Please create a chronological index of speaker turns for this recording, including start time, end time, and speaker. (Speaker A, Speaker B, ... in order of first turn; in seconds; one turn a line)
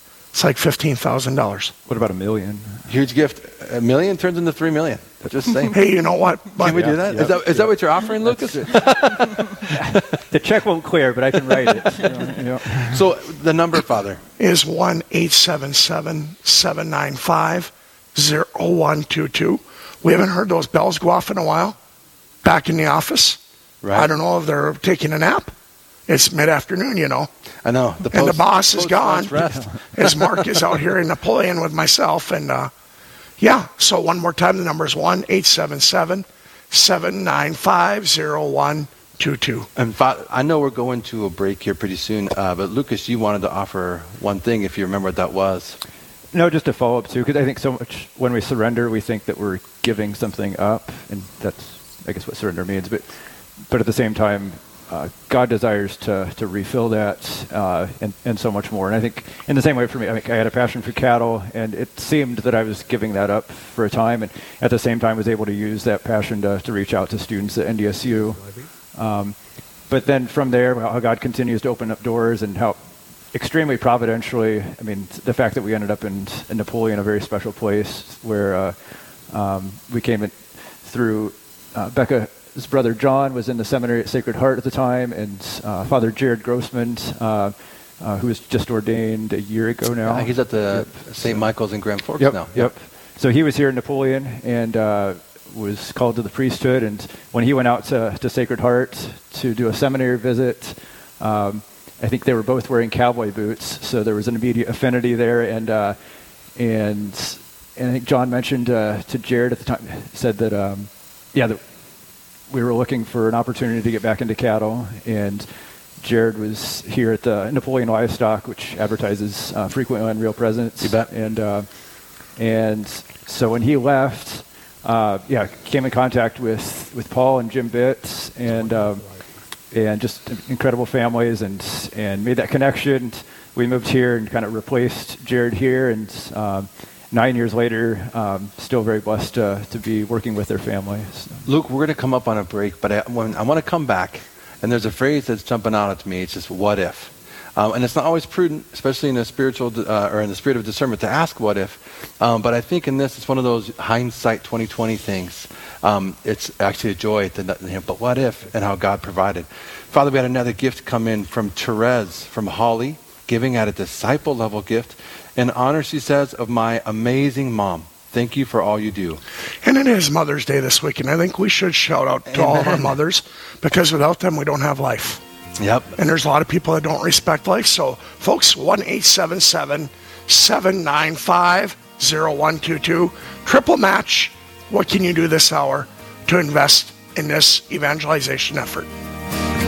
Speaker A: 0.3-1.7
Speaker B: 1.9-2.9
Speaker C: 2.9-5.8
Speaker A: 5.7-6.9
Speaker C: 6.6-10.0
Speaker B: 6.6-13.0
Speaker C: 12.7-14.2
Speaker A: 14.4-21.8
Speaker A: 22.4-23.4
Speaker C: 23.8-24.1
Speaker A: 23.9-25.5
Speaker A: 26.1-27.3
Speaker C: 27.6-30.8
Speaker A: 28.1-32.7
Speaker B: 29.4-29.8
Speaker A: 33.4-39.7
Speaker C: 39.8-45.8
Speaker B: 46.3-53.1
Speaker B: 53.6-72.8
Speaker B: 73.3-91.5
Speaker C: 90.0-92.7
Speaker B: 92.2-106.0
Speaker B: 106.5-111.6
Speaker B: 112.5-115.5
Speaker B: 116.0-129.1
Speaker C: 120.8-121.1
Speaker B: 129.7-141.4
Speaker C: 141.4-169.2
Speaker A: 169.6-175.2
Speaker C: 172.3-173.0
Speaker C: 175.6-176.0
Speaker A: 176.0-188.9